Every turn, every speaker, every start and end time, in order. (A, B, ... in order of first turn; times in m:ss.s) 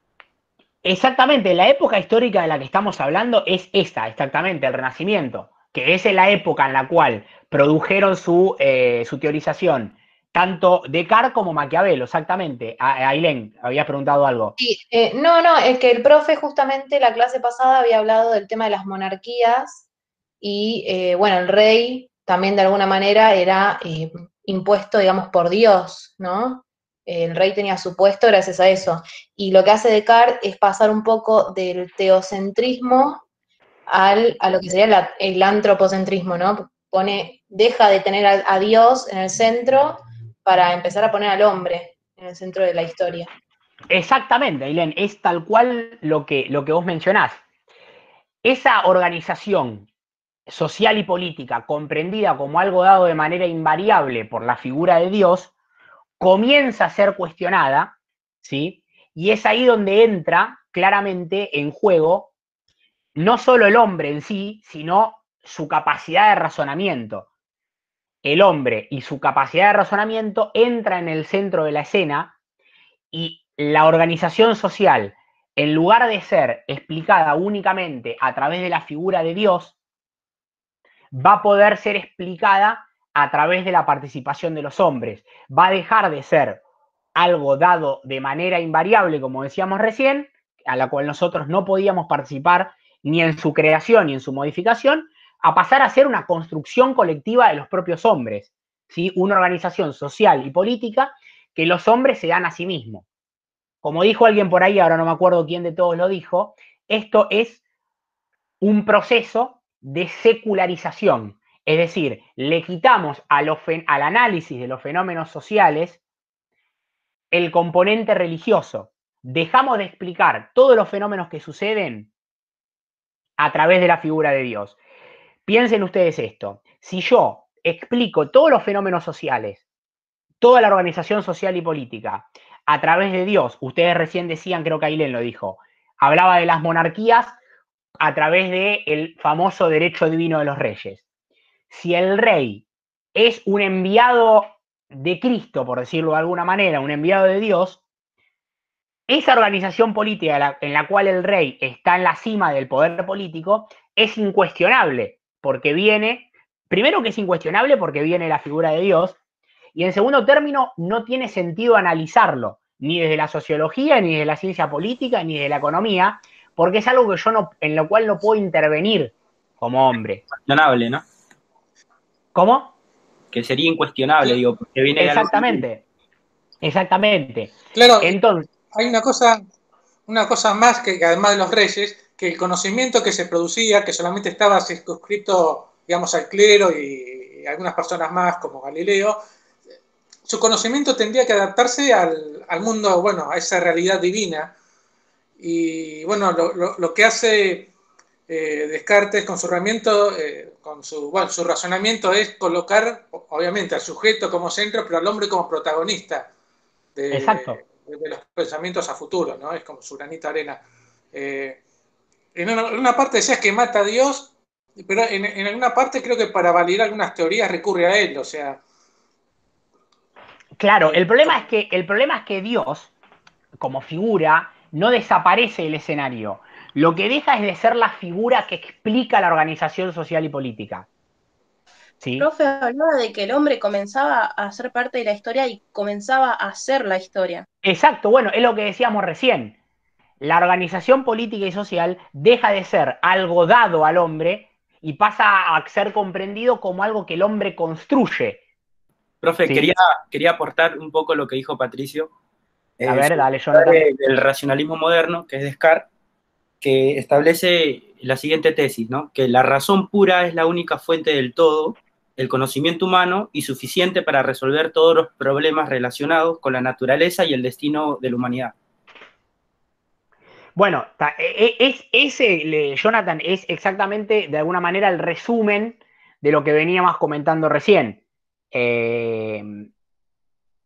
0:00.8-0:14.6 A
0:14.6-0:19.8 B
0:20.4-0:33.2 B
0:33.9-0:43.3 B
0:43.9-0:47.4 A
0:48.4-0:49.9 A
0:50.5-0:55.5 A
0:56.2-1:02.3 A
1:03.2-1:07.3 A
1:08.2-1:12.3 A
1:13.1-1:19.7 A
1:21.1-1:26.6 A
1:27.1-1:43.0 A
1:43.8-1:47.6 A
1:48.6-1:56.0 A
1:57.3-2:02.1 A
2:03.4-2:04.8 A
2:05.4-2:09.6 A
2:10.4-2:17.4 A
2:18.0-2:21.0 A
2:21.7-2:27.8 A
2:29.1-2:39.2 A
2:39.7-2:50.2 A
2:50.3-2:51.0 C
2:52.3-2:52.7 A
2:53.3-2:55.6 C
2:55.0-2:55.8 A
2:56.6-2:58.5 A
2:57.7-2:58.2 D
2:58.7-2:59.4 D
3:00.1-3:09.2 D
3:10.2-3:14.5 D
3:15.4-3:17.7 D
3:18.3-3:26.3 D
3:26.9-3:30.6 D
3:27.1-3:27.6 A
3:31.1-3:31.6 D
3:32.3-3:38.6 D
3:40.6-3:42.9 A
3:43.6-3:50.9 A
3:52.0-3:52.3 A
3:52.2-3:57.4 E
3:57.6-3:59.6 A
4:00.2-4:08.4 A
4:09.2-4:12.1 C
4:09.4-4:09.7 A
4:12.8-4:15.9 C
4:12.8-4:13.9 A
4:16.6-4:28.5 C
4:30.6-4:38.0 A
4:38.5-4:39.7 A